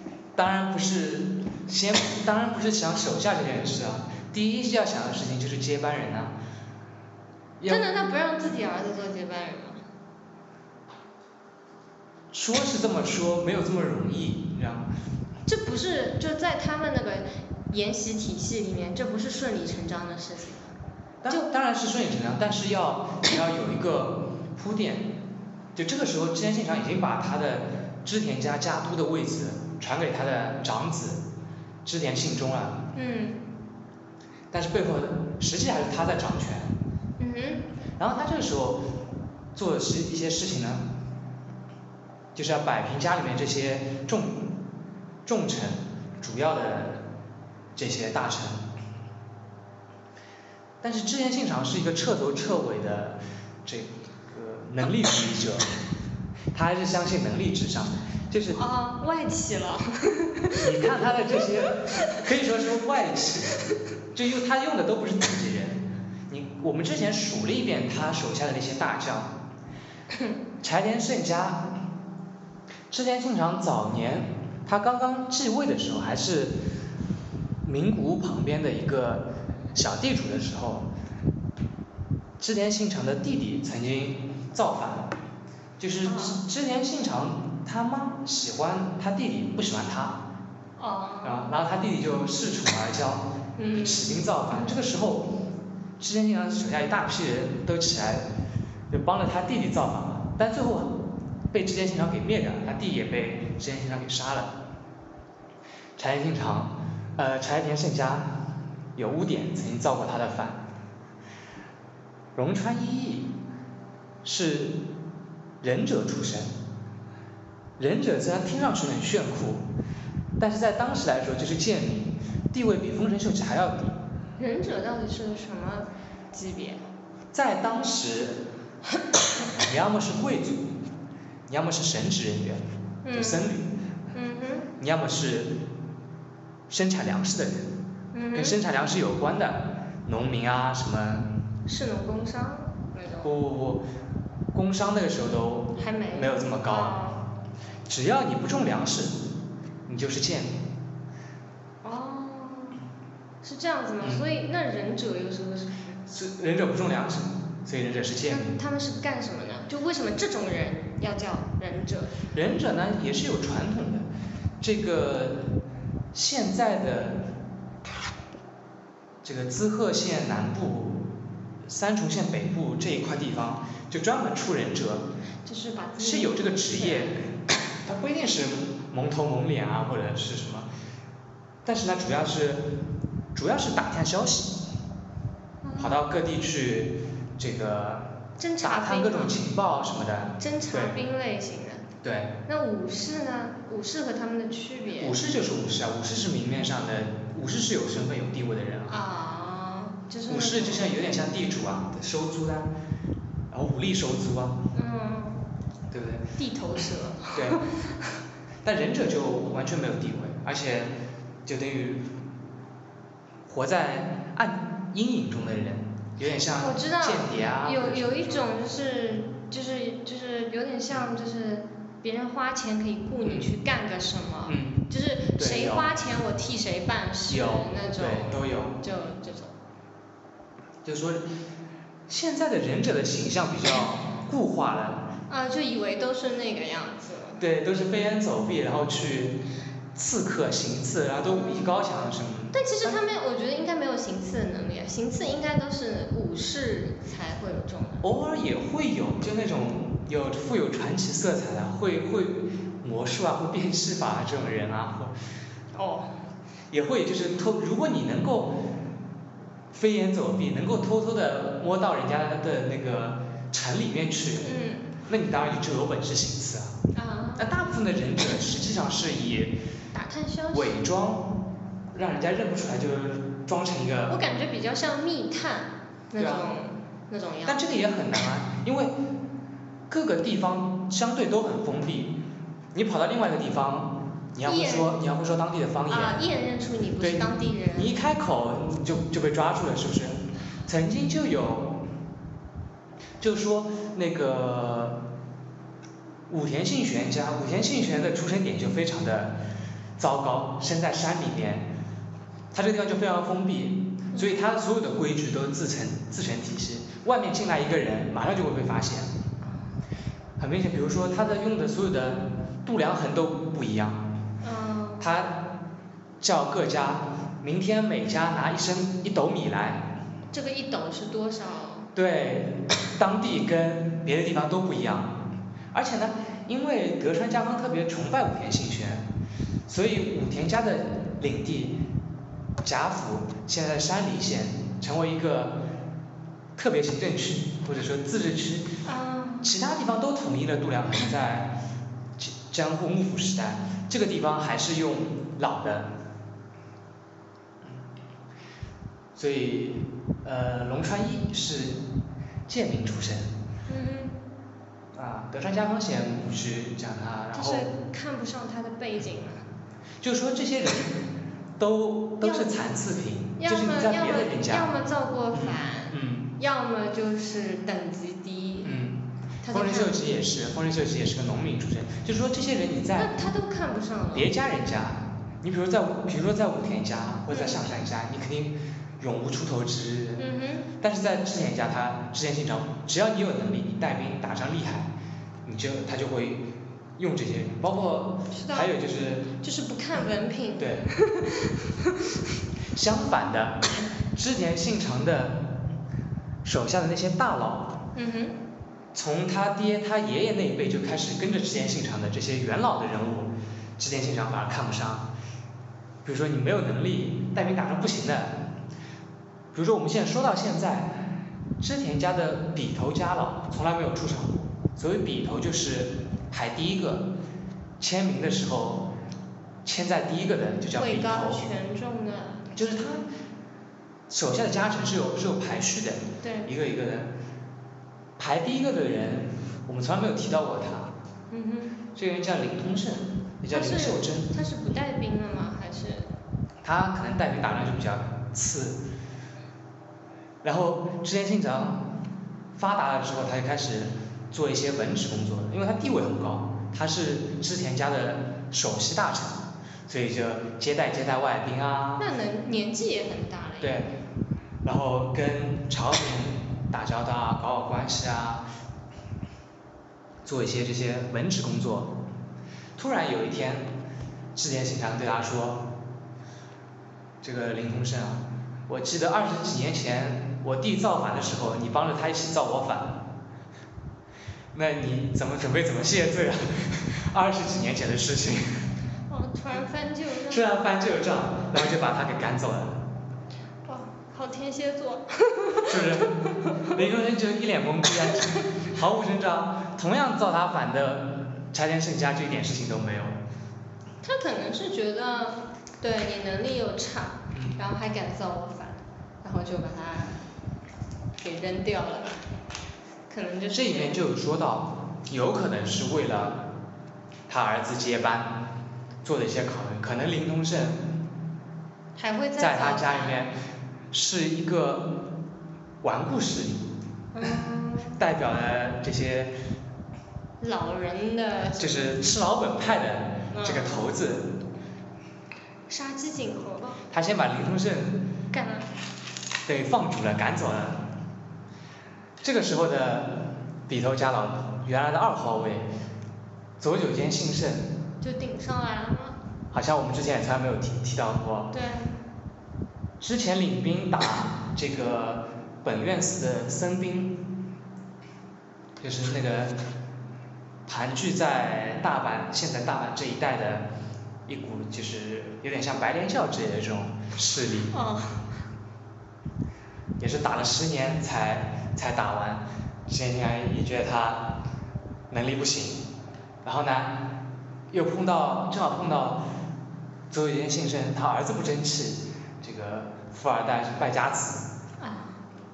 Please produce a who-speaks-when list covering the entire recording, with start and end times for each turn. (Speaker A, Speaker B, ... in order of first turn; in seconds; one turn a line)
Speaker A: 0.3-6.3
Speaker A: 7.6-7.8
Speaker B: 7.7-9.8
Speaker A: 12.3-14.9
Speaker B: 15.4-20.7
Speaker A: 21.2-25.2
Speaker A: 25.7-31.2
Speaker A: 31.8-32.9
Speaker B: 32.9-33.4
Speaker A: 34.5-36.7
Speaker B: 37.2-37.6
Speaker A: 38.0-38.9
Speaker A: 39.5-40.9
Speaker A: 42.3-44.5
Speaker A: 45.2-47.0
Speaker A: 47.7-48.6
Speaker A: 50.8-55.7
Speaker A: 56.5-58.6
Speaker B: 58.5-60.6
Speaker A: 60.6-63.6
Speaker A: 64.1-69.3
Speaker A: 70.6-71.8
Speaker A: 72.9-76.6
Speaker A: 77.6-80.9
Speaker A: 82.4-85.1
Speaker A: 85.8-90.2
Speaker B: 86.0-86.4
Speaker B: 90.8-91.5
Speaker A: 91.2-95.3
Speaker B: 93.5-94.1
Speaker A: 96.0-98.3
Speaker A: 98.9-104.6
Speaker A: 106.0-108.4
Speaker A: 109.0-110.7
Speaker A: 112.3-113.4
Speaker A: 114.2-114.9
Speaker A: 115.6-116.5
Speaker A: 117.8-119.7
Speaker A: 120.4-124.0
Speaker B: 124.4-126.8
Speaker A: 127.3-128.4
Speaker A: 129.6-130.8
Speaker A: 131.5-133.7
Speaker B: 133.0-133.5
Speaker B: 134.1-134.7
Speaker A: 134.8-135.6
Speaker A: 136.7-137.7
Speaker B: 138.1-138.6
Speaker A: 138.3-141.3
Speaker B: 141.7-143.3
Speaker A: 143.2-143.8
Speaker A: 144.5-147.0
Speaker B: 145.8-147.2
Speaker A: 147.9-149.3
Speaker A: 149.9-150.6
Speaker B: 151.8-152.8
Speaker B: 153.4-155.9
Speaker A: 154.0-154.2
Speaker A: 156.1-158.6
Speaker B: 158.3-162.2
Speaker A: 162.3-164.1
Speaker A: 164.6-165.6
Speaker A: 166.1-167.3
Speaker A: 169.2-171.1
Speaker A: 171.6-175.1
Speaker B: 175.4-177.2
Speaker A: 176.0-177.2
Speaker A: 177.8-180.7
Speaker A: 181.6-182.8
Speaker A: 183.3-184.7
Speaker B: 185.6-186.0
Speaker A: 185.8-191.0
Speaker B: 188.4-189.4
Speaker B: 190.4-191.8
Speaker A: 192.0-192.3
Speaker B: 192.5-195.2
Speaker A: 195.0-199.0
Speaker B: 198.9-200.9
Speaker A: 200.3-202.7
Speaker A: 203.5-204.6
Speaker B: 204.7-205.5
Speaker A: 205.9-206.3
Speaker B: 206.4-207.9
Speaker A: 207.3-207.6
Speaker A: 208.6-212.2
Speaker A: 213.4-218.5
Speaker B: 216.5-229.5
Speaker A: 223.2-223.5
Speaker A: 224.4-225.9
Speaker A: 227.3-228.8
Speaker A: 230.8-231.3
Speaker A: 232.1-235.1
Speaker B: 235.3-237.4
Speaker A: 237.4-239.4
Speaker A: 239.9-243.0
Speaker B: 241.3-241.7
Speaker B: 242.5-248.1
Speaker A: 248.0-255.1
Speaker B: 255.7-256.1
Speaker A: 256.7-258.7
Speaker A: 259.7-264.5
Speaker B: 264.4-264.9
Speaker A: 265.1-266.8
Speaker B: 266.9-267.5
Speaker A: 267.4-269.6
Speaker B: 269.9-270.8
Speaker A: 270.5-274.2
Speaker B: 274.1-277.6
Speaker A: 276.2-276.5
Speaker A: 277.4-278.9
Speaker A: 279.9-282.2
Speaker A: 282.7-286.2
Speaker B: 284.4-284.9
Speaker B: 285.9-287.9
Speaker A: 287.0-291.9
Speaker A: 293.2-295.0
Speaker A: 296.3-299.4
Speaker A: 300.0-301.7
Speaker A: 302.5-309.1
Speaker B: 309.4-309.7
Speaker A: 310.4-314.1
Speaker B: 314.4-315.1
Speaker A: 315.0-315.6
Speaker A: 316.2-319.9
Speaker B: 320.3-321.9
Speaker A: 321.9-329.1
Speaker A: 329.7-331.9
Speaker A: 332.6-335.6
Speaker A: 336.6-338.7
Speaker B: 338.8-339.5
Speaker A: 339.4-341.6
Speaker A: 342.2-345.9
Speaker A: 349.1-351.9
Speaker A: 352.5-353.3
Speaker B: 353.7-354.2
Speaker A: 354.9-357.7
Speaker B: 357.3-359.4
Speaker A: 360.0-364.7
Speaker B: 362.2-362.6
Speaker B: 363.4-368.8
Speaker A: 365.3-366.3
Speaker A: 368.6-373.1
Speaker B: 369.4-370.0
Speaker B: 372.9-374.3
Speaker A: 374.1-380.2
Speaker B: 377.3-377.6
Speaker B: 380.2-380.7
Speaker A: 380.8-384.9
Speaker A: 385.4-389.3
Speaker B: 388.3-388.7
Speaker B: 389.3-392.1
Speaker A: 390.6-390.9
Speaker A: 392.7-393.6
Speaker A: 394.1-395.7
Speaker A: 396.4-397.8
Speaker B: 397.9-398.4
Speaker A: 398.9-405.1
Speaker A: 406.0-408.5
Speaker A: 409.5-417.1
Speaker A: 417.8-418.9
Speaker A: 419.6-421.4
Speaker B: 420.7-422.8
Speaker A: 422.5-423.1
Speaker A: 424.1-427.1
Speaker B: 426.2-426.5
Speaker A: 428.2-430.9
Speaker B: 431.3-431.8
Speaker A: 431.9-434.3
Speaker B: 433.5-436.1
Speaker A: 436.6-438.8
Speaker A: 440.4-441.9
Speaker A: 442.6-452.1
Speaker B: 452.0-453.9
Speaker A: 453.6-453.9
Speaker A: 454.6-458.4
Speaker A: 460.2-462.0
Speaker A: 462.8-463.7
Speaker A: 464.3-465.7
Speaker A: 467.2-473.1
Speaker A: 474.5-478.7
Speaker B: 479.1-480.5
Speaker A: 480.3-482.9
Speaker B: 483.6-486.7
Speaker A: 485.6-493.2
Speaker B: 494.0-500.2
Speaker A: 497.3-497.6
Speaker B: 501.2-502.2
Speaker B: 503.1-504.0
Speaker A: 503.5-506.5
Speaker A: 507.3-508.5
Speaker A: 509.0-510.9
Speaker B: 511.9-513.3
Speaker A: 512.4-513.3
Speaker A: 513.9-515.1
Speaker A: 515.8-516.7
Speaker B: 517.1-518.0
Speaker A: 517.9-519.3
Speaker B: 520.4-522.0
Speaker A: 521.6-524.4
Speaker B: 523.3-523.8
Speaker B: 525.7-526.8
Speaker A: 526.9-528.1
Speaker B: 528.3-528.7
Speaker A: 529.5-530.9
Speaker A: 532.2-535.7
Speaker A: 536.6-537.8
Speaker B: 538.0-539.2
Speaker A: 539.5-541.5
Speaker B: 541.5-542.0
Speaker A: 543.0-547.3
Speaker A: 548.8-549.6
Speaker A: 550.6-553.7
Speaker A: 554.2-557.7
Speaker B: 557.7-558.3
Speaker A: 560.0-564.4
Speaker A: 565.1-565.9
Speaker A: 566.4-569.2
Speaker A: 570.1-574.5
Speaker B: 574.8-575.2